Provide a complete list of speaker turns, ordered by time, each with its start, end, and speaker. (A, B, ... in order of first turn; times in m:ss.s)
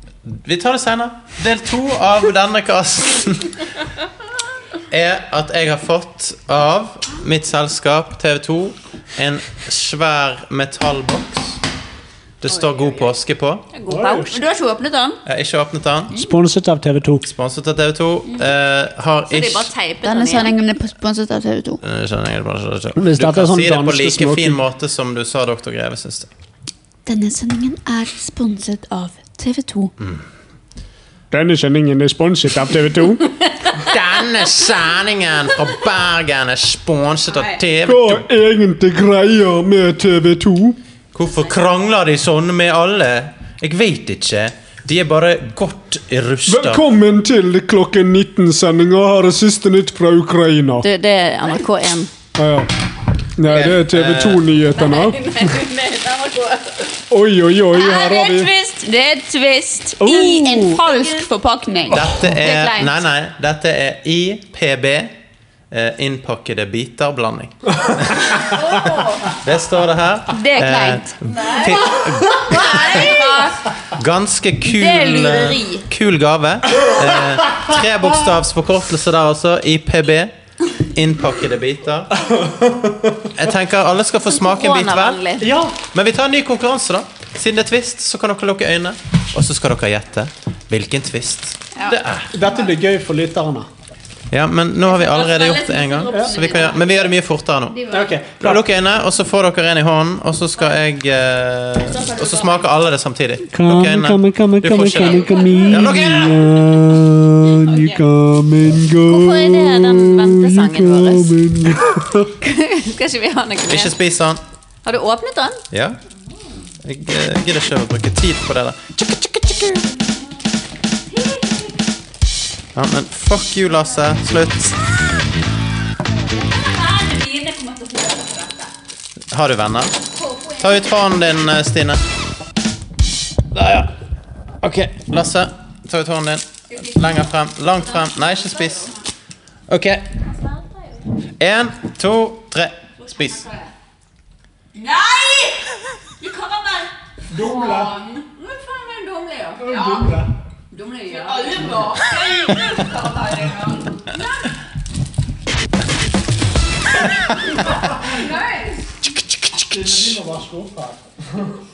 0:00.3-0:03.6 A
0:04.9-0:11.6 A
0:12.4-0:13.7 A
0:12.5-0:13.1 B
0:13.7-0:14.3 B
0:13.9-0:14.3 C
0:14.3-0:15.2 D
0:15.2-0:16.1 A
0:16.1-0:17.2 C
0:17.2-0:19.7 A
0:19.3-0:20.5 B
0:20.0-0:21.8 D
0:21.8-0:26.3 A
0:23.0-0:24.6 C
0:27.0-0:29.9 D
0:31.3-0:33.2 C
0:33.8-0:38.2 A
0:37.3-0:37.6 D
0:37.8-0:40.8 C
0:41.1-0:46.8 A
0:46.5-0:50.8 C
0:50.8-0:52.1 B
0:52.4-0:52.7 C
0:53.4-0:55.5 C
0:53.5-0:54.4 A
0:54.6-0:57.0 B
0:57.1-0:58.5 C
0:57.7-1:03.0 D
1:00.0-1:00.8 C
1:00.7-1:01.3 B
1:01.9-1:05.1 A
1:05.7-1:08.5 A
1:08.3-1:09.4 B
1:09.3-1:13.2 A
1:10.3-1:13.6 D
1:11.3-1:13.5 B
1:13.9-1:20.3 A
1:14.6-1:15.9 D
1:17.5-1:17.8 C
1:20.9-1:22.1 A
1:22.2-1:23.3 C
1:23.3-1:25.2 A
1:24.4-1:25.5 B
1:25.4-1:25.8 C
1:25.9-1:32.3 A
1:31.8-1:32.7 D
1:32.3-1:33.7 C
1:34.3-1:46.5 A
1:34.9-1:37.1 D
1:37.7-1:38.2 D
1:37.9-1:38.6 C
1:41.8-1:42.6 D
1:43.5-1:52.3 C
1:44.8-1:46.0 D
1:47.7-1:48.0 D
1:49.0-1:51.3 B
1:52.3-1:53.9 B
1:53.7-1:54.4 A
1:54.8-1:55.6 B
1:55.7-1:56.0 A
1:56.8-1:59.7 A
2:01.1-2:01.7 D
2:02.8-2:04.8 A
2:06.3-2:08.7 D
2:09.3-2:10.0 A
2:10.2-2:10.8 D
2:10.6-2:12.0 A
2:13.5-2:13.9 A
2:14.6-2:18.9 A
2:16.7-2:19.0 D
2:19.7-2:20.0 A
2:20.2-2:21.0 B
2:21.4-2:23.4 A
2:23.0-2:23.7 D
2:24.7-2:28.3 D
2:27.3-2:28.0 C
2:28.4-2:29.8 B
2:29.6-2:30.3 C
2:29.7-2:30.2 D
2:30.7-2:31.9 B
2:30.9-2:34.2 D
2:37.6-2:38.8 D
2:39.7-2:41.4 C